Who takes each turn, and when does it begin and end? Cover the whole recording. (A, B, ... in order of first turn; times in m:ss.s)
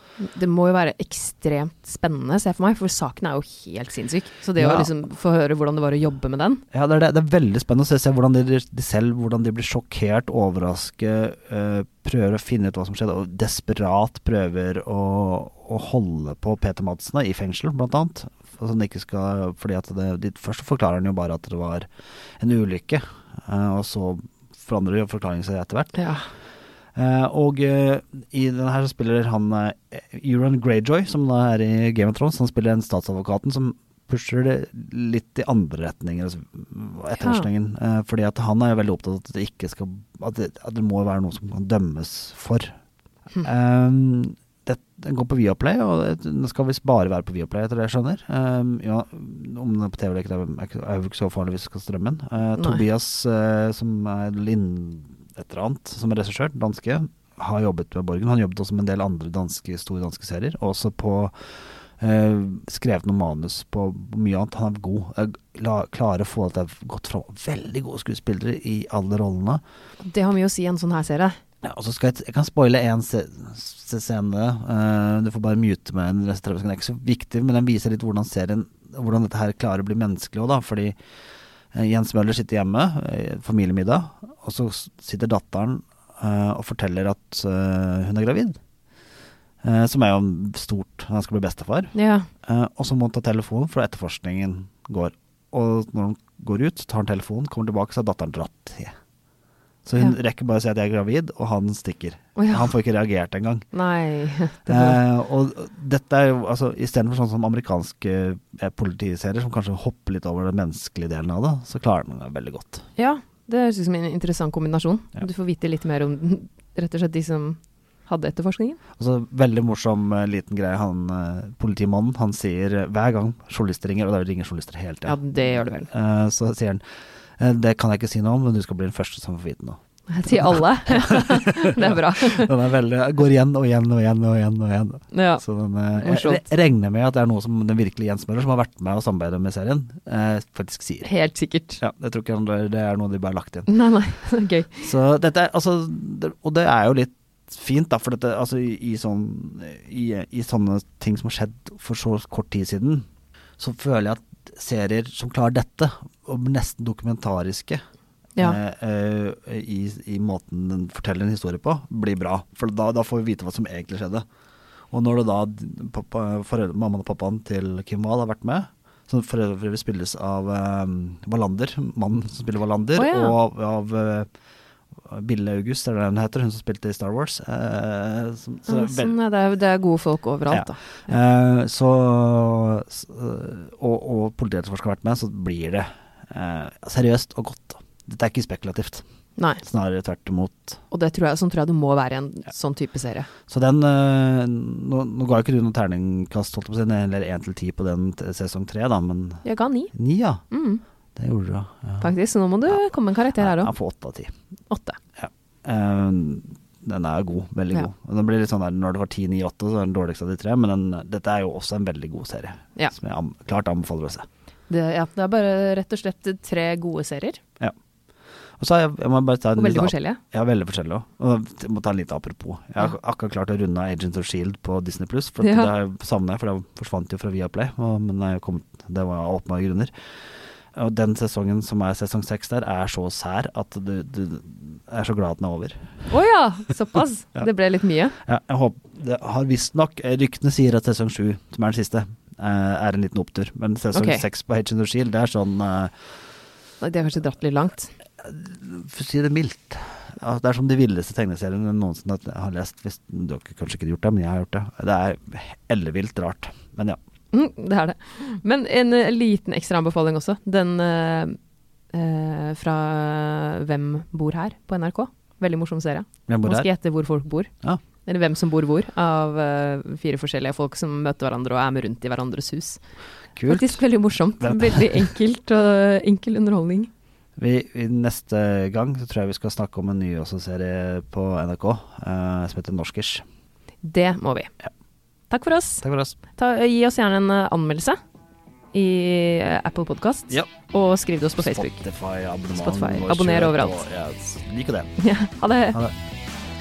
0:00.2-0:06.6 A
0:04.6-0:04.9 B
0:06.7-0:21.9 B
0:22.4-0:26.1 B
0:25.9-0:26.2 A
0:26.9-0:42.7 B
0:37.2-0:37.5 A
0:43.4-1:01.3 B
0:52.6-0:52.8 A
1:02.0-1:09.6 B
1:10.0-1:11.4 A
1:11.6-1:20.9 B
1:21.7-1:28.6 B
1:29.6-1:39.0 B
1:31.9-1:32.3 A
1:39.8-1:43.7 B
1:42.4-1:42.7 A
1:43.7-1:45.0 A
1:44.6-1:52.8 B
1:53.0-1:58.8 A
1:59.0-2:06.8 B
2:05.0-2:05.9 A
2:07.4-2:21.1 B
2:10.1-2:12.5 A
2:15.1-2:15.4 A
2:16.0-2:16.4 A
2:21.0-2:21.8 A
2:21.8-2:23.7 B
2:23.7-2:24.9 A
2:24.8-2:33.0 B
2:33.6-2:37.8 B
2:38.4-2:44.2 B
2:44.9-2:54.3 B
2:53.0-2:53.4 A
2:55.0-2:59.1 B
2:58.7-3:00.8 A
3:00.5-3:09.0 B
3:09.4-3:09.6 A
3:09.6-3:10.8 B
3:10.9-3:13.3 A
3:13.5-3:20.4 B
3:19.4-3:19.9 A
3:20.5-3:20.8 A
3:21.2-3:22.1 B
3:22.0-3:23.7 A
3:23.4-3:24.3 B
3:24.7-3:25.0 A
3:25.2-3:34.3 B
3:34.7-3:37.4 A
3:38.6-3:49.9 B
3:39.6-3:40.2 A
3:45.4-3:45.7 A
3:50.7-3:55.9 B
3:56.1-3:58.2 A
3:58.2-4:05.9 B
4:03.9-4:04.2 A
4:06.8-4:07.9 A
4:08.2-4:17.0 B
4:17.3-4:21.4 A
4:21.9-4:27.5 A
4:26.3-4:26.7 B
4:28.0-4:32.8 A
4:33.4-4:33.8 B
4:33.5-4:36.9 A
4:34.4-4:35.0 B
4:37.4-4:43.2 B
4:43.8-4:44.5 A
4:45.3-4:48.0 A
4:45.8-4:46.2 B
4:48.7-4:51.8 A
4:51.4-4:55.0 B
4:52.5-4:53.8 A
4:55.0-4:55.8 A